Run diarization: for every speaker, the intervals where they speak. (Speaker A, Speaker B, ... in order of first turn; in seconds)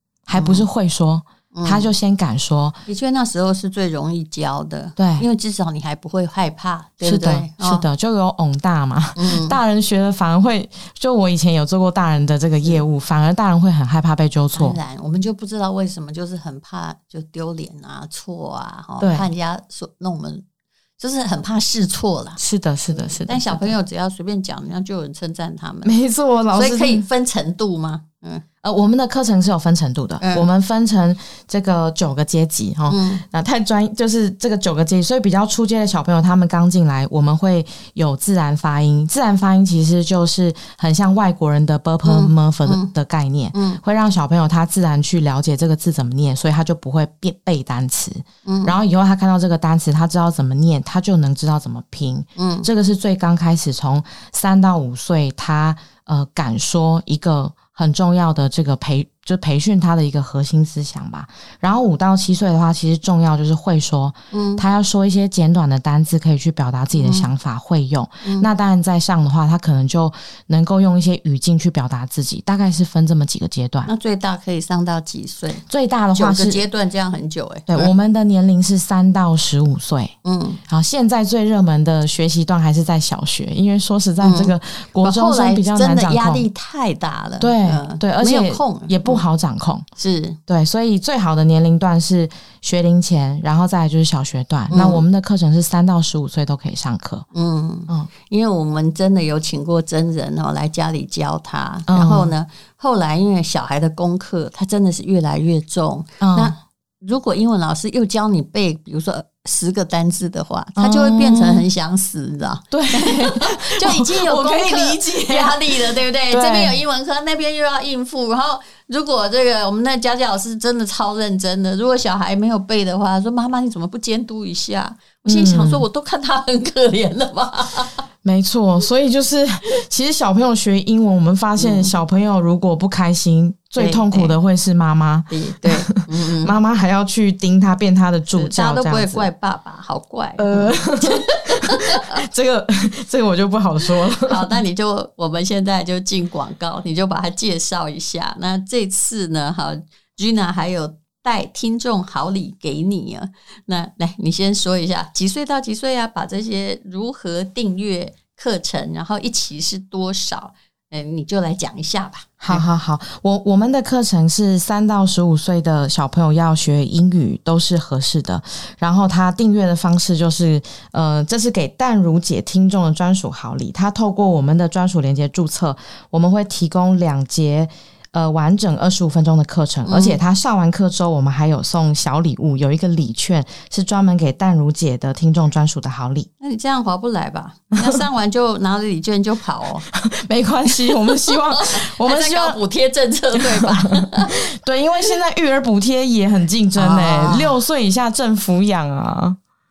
Speaker A: 0.3-2.8, 5.0-5.3, 7.0-14.8, 19.0-19.3, 22.4-23.7, 25.8-27.1, 28.6-73.9, 75.7-76.6, 77.7-80.2, 80.7-86.5, 87.4-89.9, 90.5-97.3, 101.9-102.3, 106.2-106.5, 110.8-111.7, 112.7-116.8, 125.3-125.8, 128.2-139.3, 140.4-144.4, 162.4-186.3, 189.9-192.6, 193.3-199.4
Speaker B: 0.4-0.7, 1.5-1.9, 2.9-7.8, 9.2-9.6, 14.5-20.4, 21.0-22.4, 22.9-25.9, 26.5-28.4, 30.2-30.5, 32.9-33.2, 42.0-42.9, 43.5-43.8, 48.5-48.8, 52.4-52.7, 64.3-64.6, 67.0-67.3, 68.2-68.5, 73.9-77.9, 80.2-80.6, 84.2-89.2, 90.0-90.4, 94.7-95.0, 97.3-128.0, 131.6-131.9, 133.8-134.3, 135.3-136.6, 138.3-142.2, 144.1-162.7, 179.8-180.2, 186.4-189.9, 191.3-194.3, 196.8-197.6